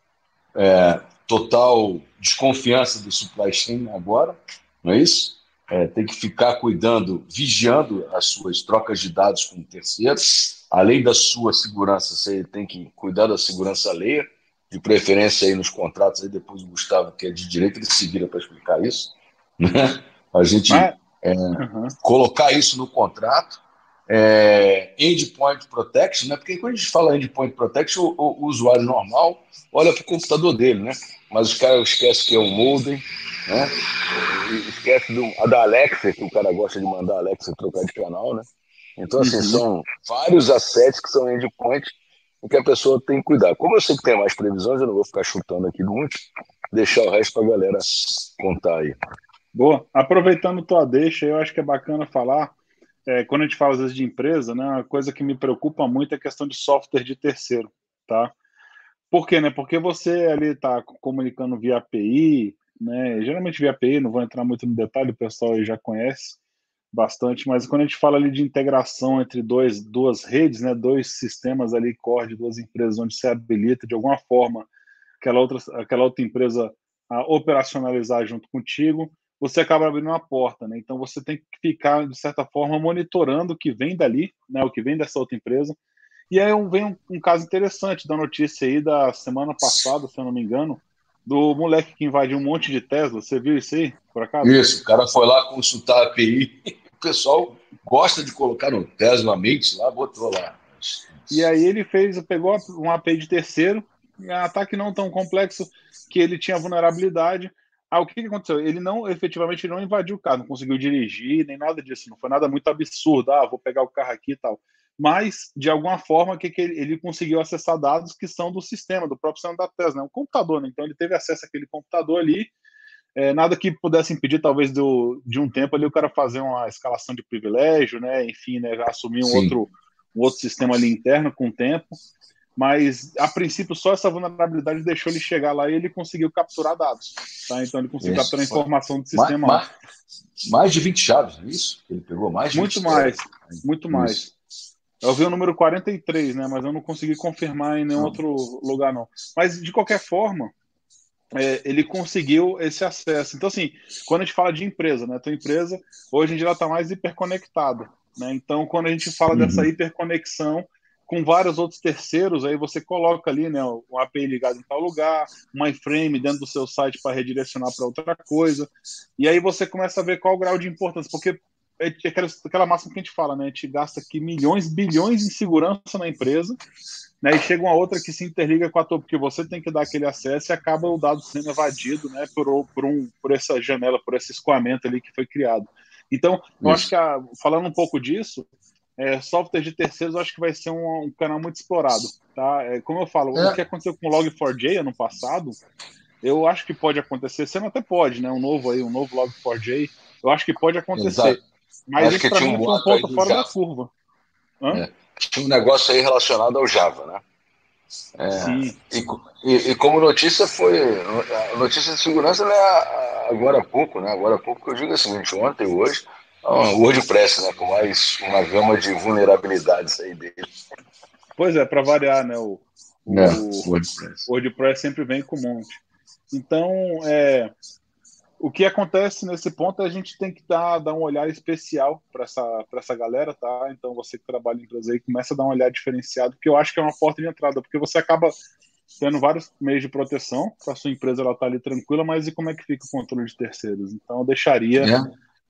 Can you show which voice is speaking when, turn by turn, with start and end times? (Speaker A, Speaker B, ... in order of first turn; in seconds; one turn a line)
Speaker A: 0.5-38.5
Speaker B: 20.7-20.9
Speaker B: 21.6-21.9
Speaker A: 39.0-49.0
Speaker B: 39.2-39.6
Speaker B: 49.5-52.5
Speaker B: 53.1-58.3
Speaker B: 59.1-66.4
Speaker B: 66.9-74.7
Speaker B: 75.2-85.8
Speaker B: 86.3-94.6
Speaker A: 94.4-101.4
Speaker B: 101.3-122.5
Speaker B: 123.2-132.0
Speaker A: 129.2-129.6
Speaker B: 132.6-139.7
Speaker A: 138.0-138.6
Speaker A: 139.1-139.7
Speaker A: 140.4-144.2
Speaker B: 142.5-144.3
Speaker B: 145.0-150.5
Speaker B: 151.3-176.6
Speaker A: 159.3-159.7
Speaker B: 177.2-188.5
Speaker B: 189.0-195.6
Speaker B: 196.2-203.9
Speaker A: 200.9-201.4
Speaker A: 202.0-203.5
Speaker A: 204.7-207.2
Speaker A: 208.2-220.5
Speaker B: 208.3-208.8
Speaker B: 221.4-223.7
Speaker A: 223.1-224.3
Speaker B: 224.3-225.8
Speaker B: 226.3-227.5
Speaker B: 228.4-238.3
Speaker B: 239.0-244.9
Speaker A: 244.8-245.1